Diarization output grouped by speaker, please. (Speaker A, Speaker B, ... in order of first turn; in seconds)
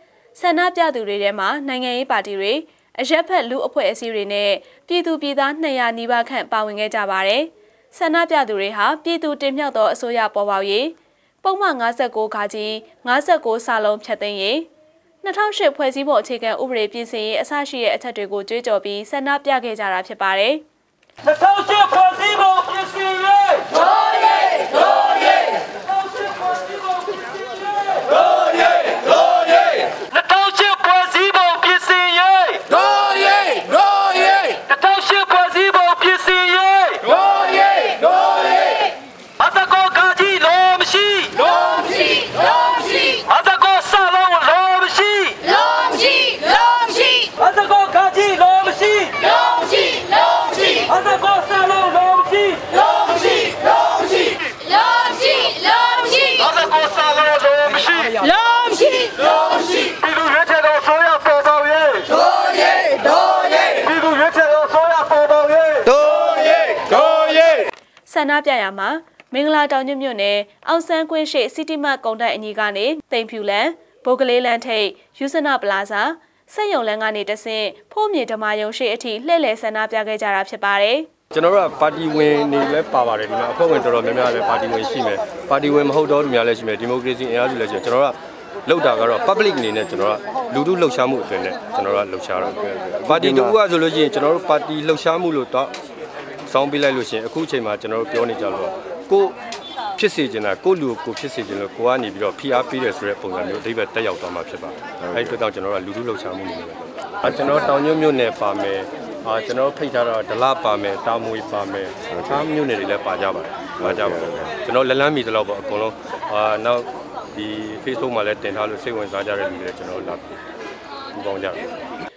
Speaker A: 0.3-14.7, 15.2-20.6, 45.9-47.3, 55.3-56.3, 67.0-67.5, 68.1-81.1
Speaker B: 21.3-27.1, 27.8-45.9, 46.5-53.8, 55.9-67.4
Speaker C: 30.4-30.9, 57.4-57.8, 60.6-61.1, 65.3-65.8, 81.3-95.7, 96.5-99.4, 100.0-120.3, 121.1-121.7